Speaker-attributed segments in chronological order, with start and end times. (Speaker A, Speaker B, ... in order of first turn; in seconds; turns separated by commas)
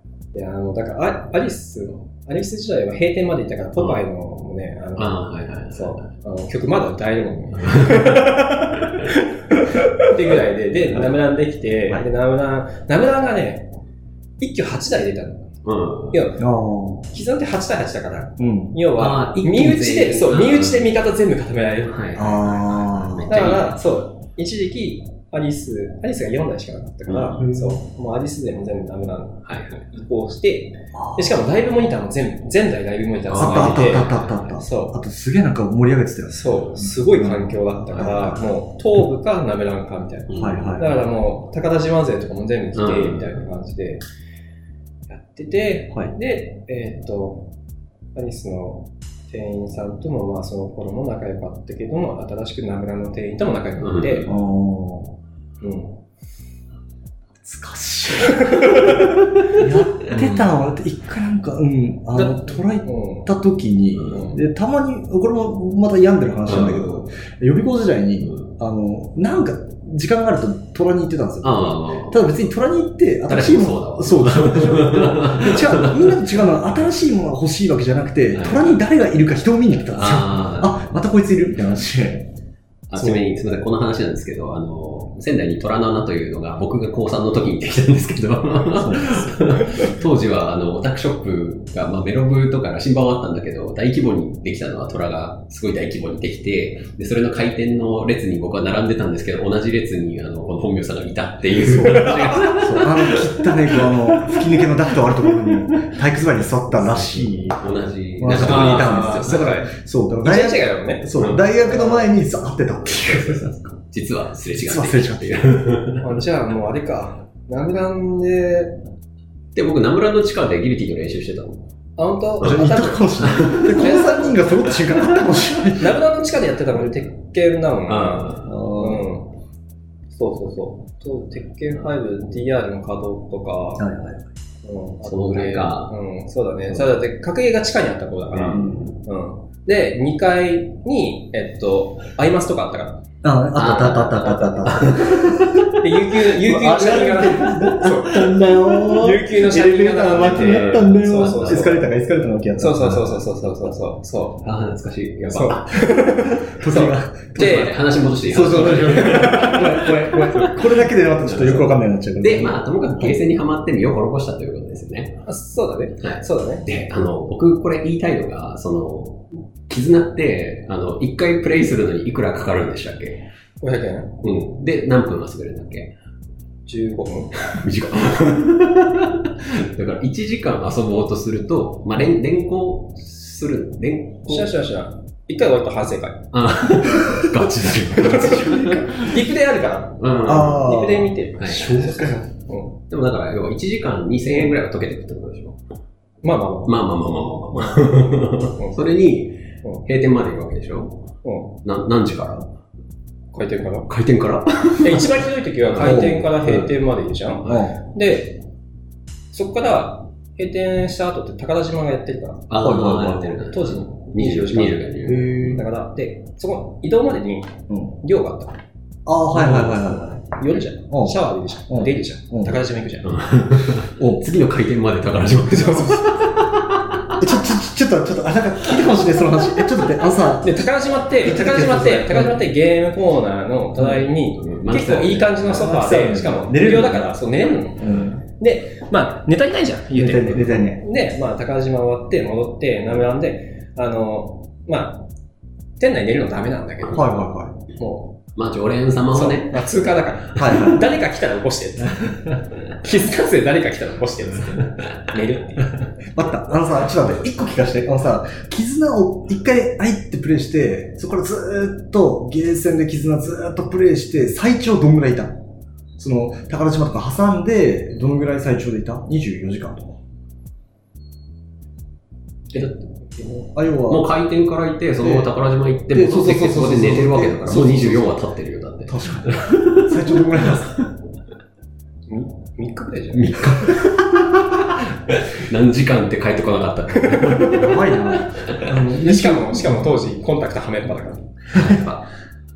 Speaker A: 0.3-13.7, Speaker B: 3.8-4.0, Speaker B: 5.0-6.0, Speaker B: 7.6-8.9, Speaker A: 14.4-15.5, Speaker B: 15.6-16.2, Speaker A: 16.1-16.4, Speaker C: 16.4-17.1, Speaker A: 17.1-22.0, Speaker C: 18.4-18.7, Speaker B: 18.9-20.9, Speaker B: 21.9-23.7, Speaker C: 22.1-23.5, Speaker A: 23.3-34.9, Speaker B: 27.1-27.4, Speaker C: 27.4-27.8, Speaker B: 29.4-29.9, Speaker C: 30.9-31.4, Speaker B: 33.2-34.6, Speaker C: 33.4-38.4, Speaker A: 36.3-44.0, Speaker B: 40.3-40.8, Speaker C: 40.3-41.0, Speaker B: 42.7-43.4, Speaker A: 45.1-47.5, Speaker A: 48.1-54.3, Speaker B: 53.8-54.3, Speaker C: 54.3-55.1, Speaker A: 55.6-56.0, Speaker C: 57.4-82.3, Speaker A: 58.2-59.0, Speaker A: 60.1-60.5, Speaker A: 62.1-63.3, Speaker A: 64.1-64.4, Speaker B: 66.5-67.0, Speaker B: 68.2-68.5, Speaker B: 71.4-72.3, Speaker B: 73.3-76.2, Speaker B: 78.3-78.8, Speaker B: 79.9-80.7, Speaker B: 82.9-104.7, Speaker C: 82.9-83.4, Speaker C: 88.7-89.8, Speaker C: 101.8-107.7, Speaker B: 106.7-109.5, Speaker C: 108.2-113.7, Speaker A: 108.4-109.7, Speaker A: 110.2-112.1, Speaker B: 111.2-111.5, Speaker B: 113.0-116.0, Speaker C: 114.5-115.6, Speaker A: 116.0-118.8, Speaker B: 119.5-121.6, Speaker A: 122.0-124.8, Speaker B: 122.4-124.0, Speaker C: 122.4-126.0, Speaker B: 124.9-125.4, Speaker A: 125.8-129.3, Speaker B: 127.9-128.6, Speaker C: 128.4-129.1, Speaker A: 130.1-133.8, Speaker C: 133.8-134.3, Speaker A: 134.6-143.0, Speaker B: 135.0-135.9, Speaker B: 138.3-138.9, Speaker C: 138.5-138.8, Speaker C: 143.2-145.6, Speaker B: 143.6-145.7, Speaker A: 144.1-144.9, Speaker A: 145.8-151.8, Speaker C: 146.4-153.3, Speaker B: 150.2-151.8, Speaker A: 152.6-154.4, Speaker B: 154.4-156.0, Speaker A: 155.3-157.8, Speaker C: 156.6-157.6, Speaker B: 157.3-165.2, Speaker C: 158.2-163.2, Speaker A: 158.4-159.6, Speaker A: 165.2-166.7, Speaker B: 166.0-173.2, Speaker A: 173.6-174.1, Speaker B: 174.2-175.9, Speaker A: 176.7-177.4, Speaker B: 177.5-184.5, Speaker A: 184.2-186.3, Speaker B: 186.3-189.1, Speaker C: 187.0-187.3, Speaker C: 188.0-189.0, Speaker A: 188.1-192.8, Speaker B: 190.0-190.7, Speaker C: 190.2-192.3, Speaker B: 191.4-191.8, Speaker B: 192.9-195.6, Speaker A: 194.2-194.6, Speaker A: 196.2-196.8, Speaker B: 196.7-201.1, Speaker A: 197.5-198.8, Speaker A: 201.2-201.6, Speaker B: 201.6-202.5, Speaker A: 203.3-203.9, Speaker B: 203.9-205.1, Speaker A: 204.8-208.4, Speaker B: 205.7-206.7, Speaker C: 205.8-206.3, Speaker C: 207.4-207.8, Speaker A: 209.3-212.5, Speaker B: 212.5-215.6, Speaker C: 212.6-213.3, Speaker A: 213.4-218.6, Speaker C: 215.1-215.6, Speaker C: 217.7-217.9, Speaker C: 219.1-220.2, Speaker B: 219.3-220.0, Speaker A: 220.3-223.2, Speaker C: 220.9-221.2, Speaker C: 221.7-222.6, Speaker B: 223.0-227.2, Speaker C: 224.0-224.3, Speaker A: 225.5-226.2, Speaker C: 227.2-230.7, Speaker A: 230.4-245.1, Speaker C: 231.2-232.4, Speaker B: 234.3-235.7, Speaker C: 235.5-238.2, Speaker C: 239.9-240.8, Speaker A: 245.8-247.2, Speaker C: 246.9-247.5, Speaker A: 247.7-248.2, Speaker B: 248.3-249.7, Speaker A: 249.1-255.7, Speaker C: 250.3-250.9, Speaker C: 256.1-265.4, Speaker C: 266.0-270.0, Speaker A: 272.5-273.5, Speaker C: 273.5-274.1, Speaker B: 273.9-280.9, Speaker C: 275.0-275.3, Speaker C: 275.9-278.2, Speaker C: 278.9-280.8, Speaker A: 282.1-283.8, Speaker B: 283.1-288.7, Speaker C: 287.3-290.0, Speaker A: 288.8-291.4, Speaker B: 291.5-292.1, Speaker C: 291.5-291.8